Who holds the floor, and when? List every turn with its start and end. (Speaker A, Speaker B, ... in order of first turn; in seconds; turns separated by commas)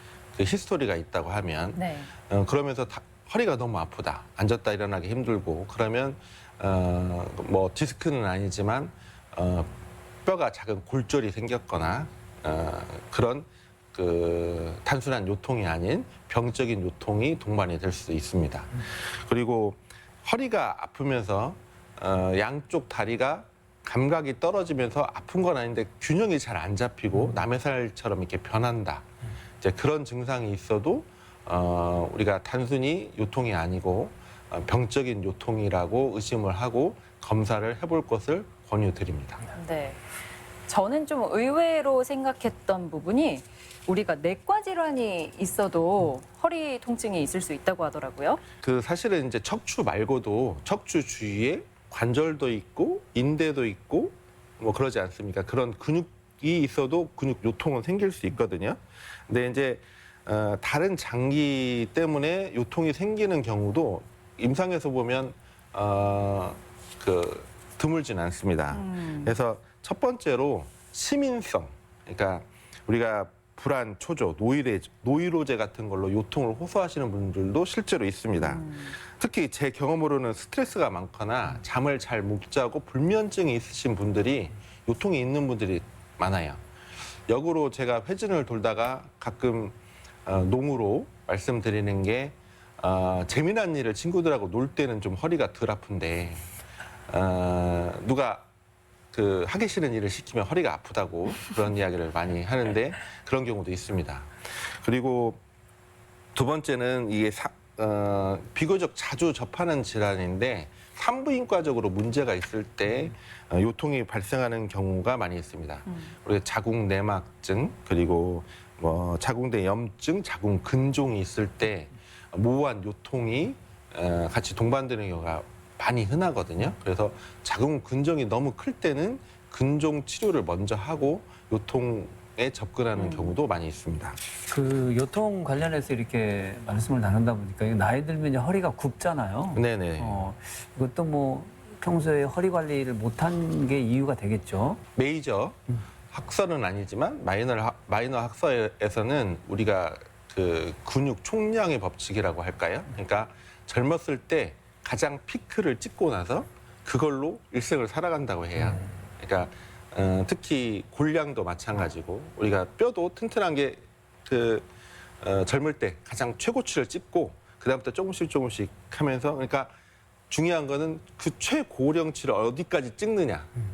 Speaker A: 0.4-9.7, Speaker B: 1.8-2.1, Speaker A: 10.2-29.1, Speaker A: 29.6-39.4, Speaker B: 39.5-40.0, Speaker B: 40.7-48.4, Speaker A: 48.6-86.6, Speaker B: 68.7-69.4, Speaker B: 78.3-78.9, Speaker A: 87.3-96.5, Speaker A: 97.1-98.5, Speaker A: 99.1-105.4, Speaker A: 106.3-134.2, Speaker B: 132.9-133.3, Speaker C: 134.5-144.8, Speaker A: 139.5-140.2, Speaker A: 144.9-145.6, Speaker A: 146.1-164.7, Speaker A: 165.2-169.7, Speaker A: 170.3-173.5